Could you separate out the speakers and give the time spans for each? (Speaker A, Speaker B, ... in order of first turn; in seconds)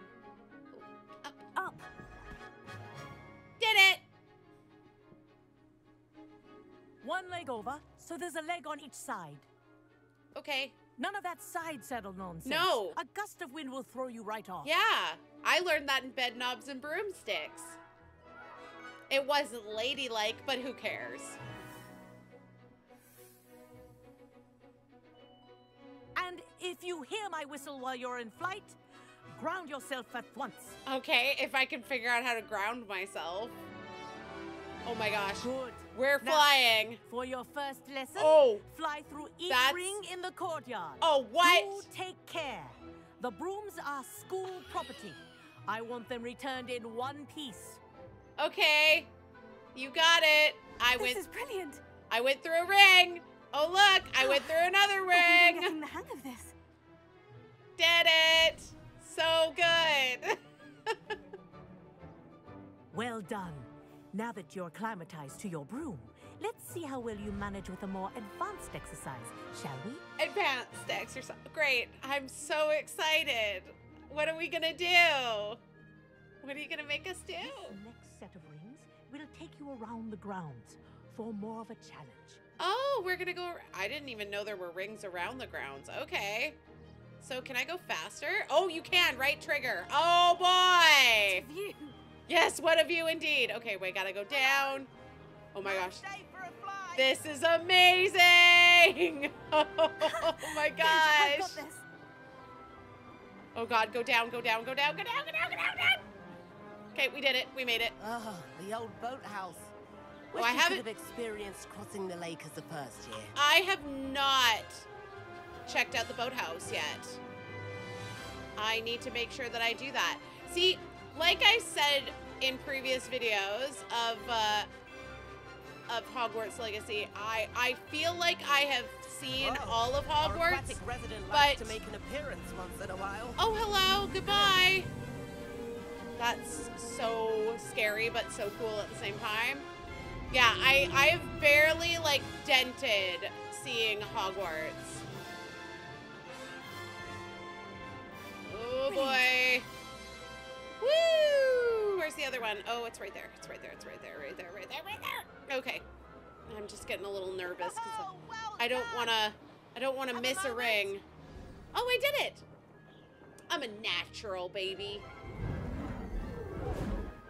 Speaker A: 0.7-1.4, 3.6-4.0, 10.3-10.8, 12.4-13.0, 14.6-17.8, 19.1-21.4, 30.9-33.6, 34.9-37.0, 38.1-38.6, 39.5-40.0, 41.0-41.9, 48.4-49.1, 49.7-51.2, 52.1-55.7, 57.8-61.1, 70.2-75.6, 76.4-77.8, 82.6-86.6, 87.2-91.4, 92.3-94.9, 95.5-96.0, 97.0-101.6, 103.5-106.0, 106.9-107.9, 110.3-110.8, 113.3-114.9, 115.7-117.2, 118.5-124.7, 125.9-131.8, 133.4-134.9, 136.2-139.7, 140.3-145.0, 148.4-149.7, 150.8-155.8, 156.5-161.0, 161.7-162.4, 163.5-165.1
Speaker B: 1.6-1.9, 51.0-51.8, 54.2-56.5, 91.4-91.8, 100.2-101.8, 148.9-149.3
Speaker C: 7.0-9.5, 11.0-14.7, 26.1-28.8, 29.3-30.8, 35.4-36.5, 37.0-47.8, 62.9-70.0, 77.4-82.4
Speaker D: 95.6-97.1, 108.0-109.7, 110.3-113.3, 129.4-133.4, 157.4-159.2, 160.1-160.9